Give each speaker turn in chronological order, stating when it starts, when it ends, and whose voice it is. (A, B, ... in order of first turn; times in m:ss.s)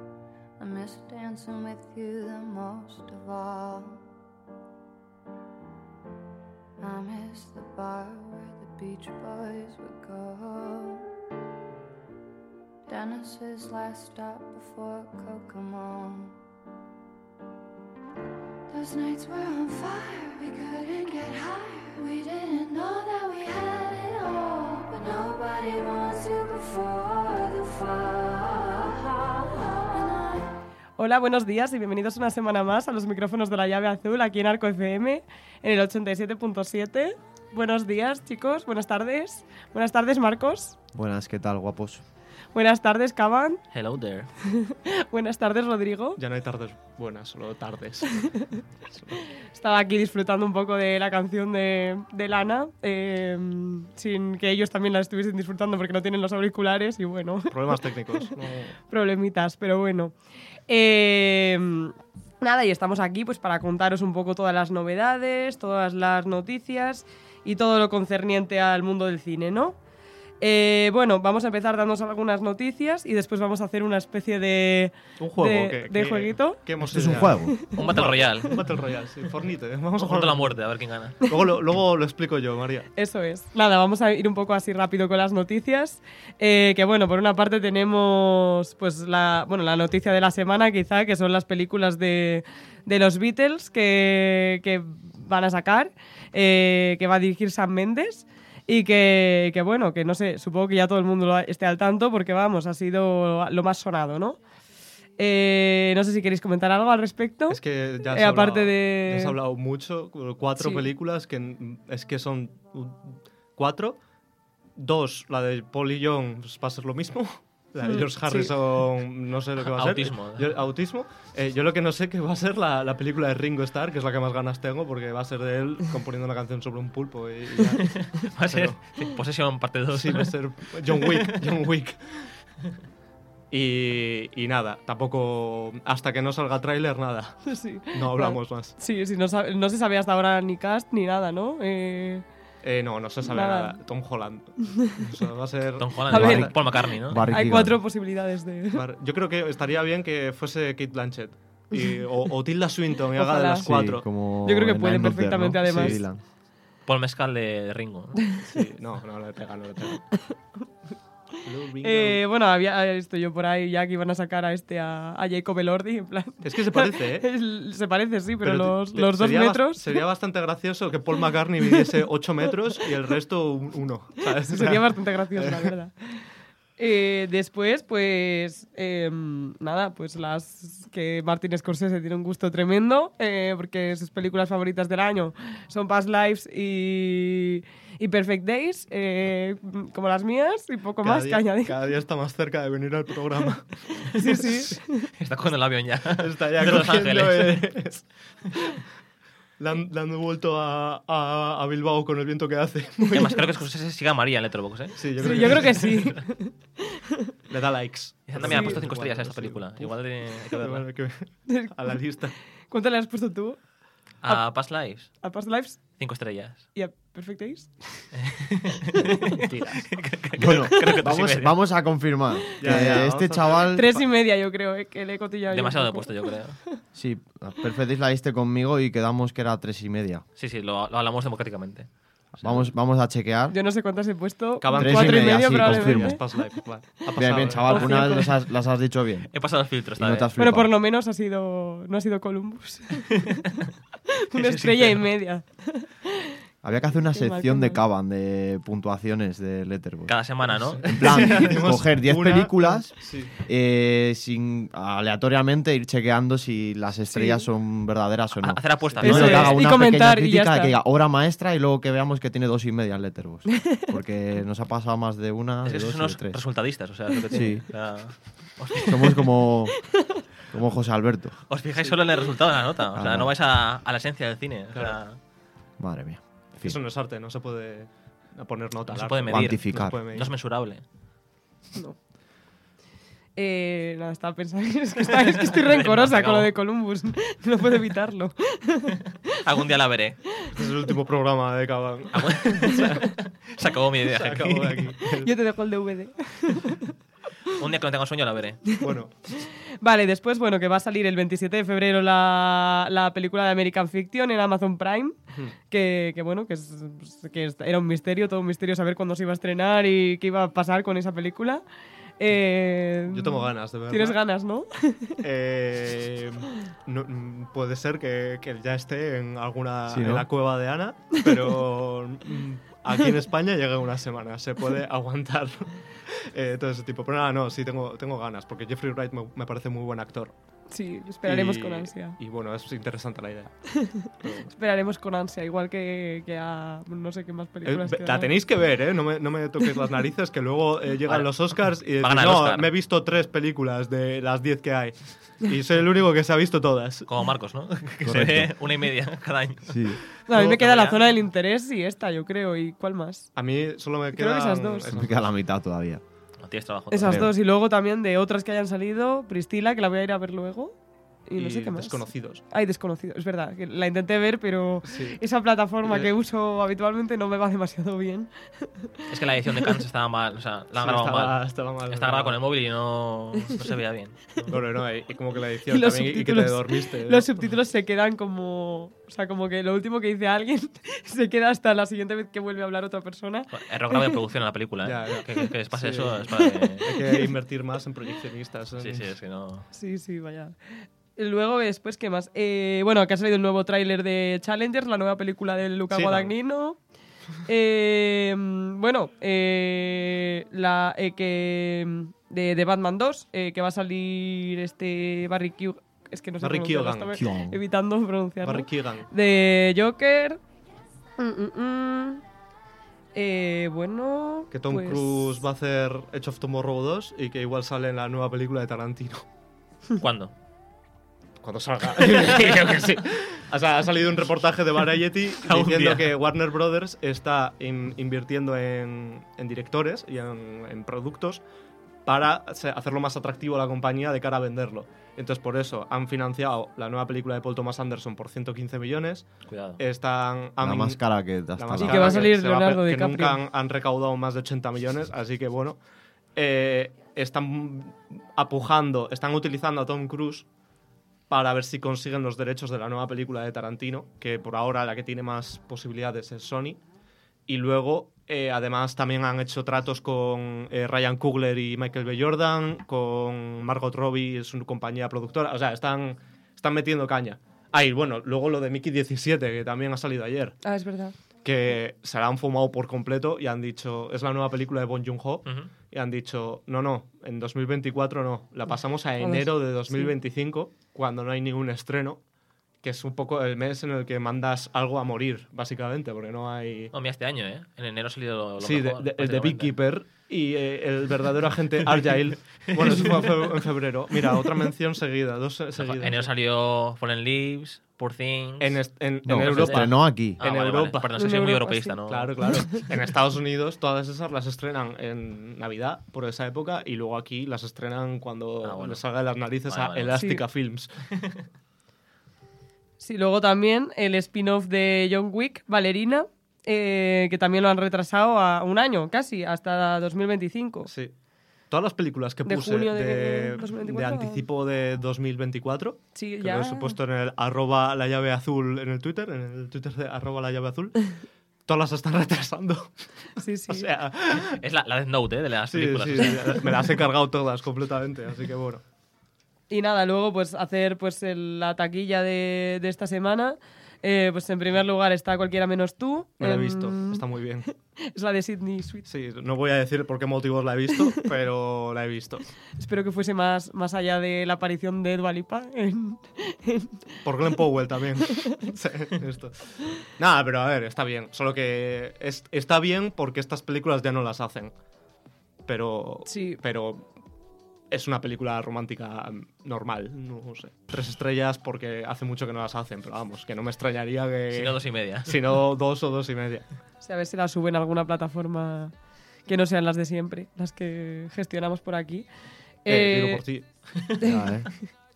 0:00.6-0:04.0 A
0:06.8-0:11.0 A
0:12.9-0:16.4 A
0:18.7-0:30.5 A
0:31.0-0:40.8 B
0:40.9-0:42.0 C
0:42.5-0:43.6 B
0:43.7-0:44.3 D
0:44.4-0:46.2 B
0:46.2-0:49.2 E
0:49.5-0:58.3 B
0:57.5-0:58.7 E
0:58.9-1:00.1 B
1:00.7-1:09.8 B
1:10.4-1:18.0 B
1:15.2-1:20.6 E
1:16.8-1:17.7 C
1:17.7-1:18.7 D
1:20.0-1:21.2 D
1:21.2-1:22.9 E
1:23.0-1:44.4 B
1:45.2-1:49.4 B
1:47.5-1:54.0 E
1:50.6-1:50.9 B
1:54.8-2:08.8 E
1:57.8-1:58.5 B
1:59.6-2:00.6 D
2:07.8-2:10.4 D
2:09.9-2:12.3 E
2:10.9-2:11.6 D
2:13.5-2:18.8 E
2:17.5-2:22.2 B
2:22.6-2:26.4 E
2:23.2-2:23.8 B
2:25.8-2:27.3 D
2:26.1-2:27.8 C
2:26.1-2:28.8 B
2:28.7-2:34.0 E
2:33.2-2:33.7 B
2:33.6-2:36.2 C
2:34.4-2:36.0 B
2:36.9-2:38.3 D
2:38.4-2:40.0 E
2:41.4-2:42.2 E
2:41.8-2:50.0 B
2:46.4-2:47.3 E
2:48.4-2:55.7 E
2:54.4-2:55.9 B
2:56.8-3:11.8 B
3:11.0-3:14.7 E
3:14.1-3:15.1 B
3:15.1-3:17.7 D
3:16.2-3:18.0 E
3:19.6-3:23.4 E
3:23.1-3:26.0 D
3:25.0-3:26.2 E
3:25.2-3:27.3 B
3:27.5-3:32.3 E
3:28.3-3:30.9 D
3:28.4-3:28.8 B
3:31.5-3:32.0 B
3:32.7-3:33.6 B
3:34.2-3:35.2 D
3:34.3-3:35.9 B
3:36.0-3:36.7 D
3:36.7-3:38.1 B
3:38.1-3:41.6 D
3:39.4-3:40.0 E
3:40.4-3:43.9 C
3:42.5-3:42.8 B
3:42.6-3:44.0 E
3:43.7-3:46.8 B
3:45.5-3:46.6 D
3:46.9-3:50.2 C
3:50.4-3:52.7 D
3:52.4-3:53.6 C
3:53.5-3:56.4 B
3:54.6-3:58.3 E
3:54.7-3:56.2 C
3:57.2-3:59.4 C
3:57.4-3:58.3 B
3:59.3-4:00.3 D
4:00.0-4:00.7 C
4:00.4-4:03.5 B
4:04.3-4:06.3 B
4:04.4-4:05.1 D
4:06.6-4:26.4 C
4:07.1-4:07.8 B
4:10.1-4:11.6 D
4:11.0-4:13.3 E
4:17.1-4:17.5 B
4:18.4-4:19.7 D
4:18.8-4:19.5 E
4:19.0-4:20.8 B
4:23.5-4:23.9 B
4:25.6-4:29.3 D
4:27.3-4:27.7 C
4:28.8-4:29.9 C
4:30.5-4:31.4 C
4:31.5-4:35.2 D
4:33.0-4:33.3 C
4:34.7-4:35.0 E
4:35.8-4:36.8 C
4:36.6-4:40.3 E
4:38.9-4:40.8 D
4:39.3-4:40.0 C
4:43.4-4:49.1 B
4:45.2-4:46.5 D
4:49.4-4:50.2 D
4:50.5-4:53.2 E
4:52.2-4:55.0 D
4:54.1-4:55.3 E
4:55.2-4:56.9 B
4:57.5-4:58.7 D
4:58.8-4:59.1 E
4:59.4-5:05.2 B
5:05.7-5:11.6 B
5:12.2-5:15.2 B
5:13.1-5:14.2 E
5:15.2-5:30.3 E
5:19.9-5:20.3 C
5:30.7-5:32.2 B
5:31.2-5:34.5 E
5:33.8-5:38.3 B
5:37.6-5:47.1 E
5:41.1-5:42.7 D
5:47.1-5:51.1 D
5:48.0-5:48.6 C
5:49.7-5:50.0 C
5:50.3-5:53.3 B
5:53.4-5:55.3 E
5:54.1-5:54.9 B
5:54.9-5:56.0 C
5:56.4-5:57.3 D
5:56.9-6:00.8 B
5:57.0-5:57.3 C
6:01.3-6:08.9 B
6:01.4-6:02.4 E
6:04.9-6:05.2 E
6:09.1-6:14.4 D
6:10.8-6:12.4 E
6:14.4-6:17.3 E
6:15.7-6:24.2 B
6:23.5-6:27.2 D
6:24.8-6:29.1 E
6:28.8-6:29.7 D
6:29.7-6:30.6 B
6:31.2-6:36.8 B
6:35.9-6:36.3 E
6:37.4-6:50.4 B
6:46.4-6:47.2 E
6:47.2-6:47.6 C
6:48.4-6:49.1 E
6:51.2-6:52.2 B
6:53.1-6:55.4 B
6:54.5-6:59.2 E
7:00.0-7:00.3 D
7:01.4-7:11.4 E
7:05.4-7:06.2 D
7:12.0-7:21.0 E
7:19.5-7:19.8 D
7:20.6-7:22.3 C
7:21.5-7:25.8 E
7:21.8-7:23.4 B
7:26.4-7:30.5 E
7:31.3-7:36.8 E
7:37.5-7:50.6 E
7:50.6-7:51.1 B
7:51.4-8:02.2 E
7:55.5-7:55.7 D
7:59.2-8:00.1 B
8:02.8-8:06.9 E
8:06.9-8:09.8 D
8:08.6-8:16.3 E
8:12.7-8:13.6 D
8:15.8-8:22.7 D
8:18.6-8:21.5 E
8:19.3-8:20.4 C
8:21.2-8:22.0 B
8:22.1-8:31.1 E
8:28.6-8:29.0 D
8:29.7-8:30.2 D
8:30.1-8:30.4 B
8:33.0-8:40.9 B
8:40.9-8:41.1 E
8:41.7-8:52.9 E
8:42.4-8:44.5 B
8:46.1-8:47.0 B
8:53.4-8:53.9 B
8:53.7-8:54.6 E
8:54.4-8:56.9 D
8:55.7-8:58.8 E
8:59.7-9:09.1 B
9:06.4-9:07.7 E
9:09.1-9:12.4 E
9:12.8-9:17.0 B
9:17.2-9:24.7 E
9:25.7-9:27.1 E
9:26.3-9:26.6 B
9:27.9-9:36.7 E
9:34.5-9:35.4 D
9:37.0-9:38.9 B
9:39.5-9:42.3 B
9:42.8-9:43.4 B
9:42.9-9:43.7 E
9:44.2-9:44.7 C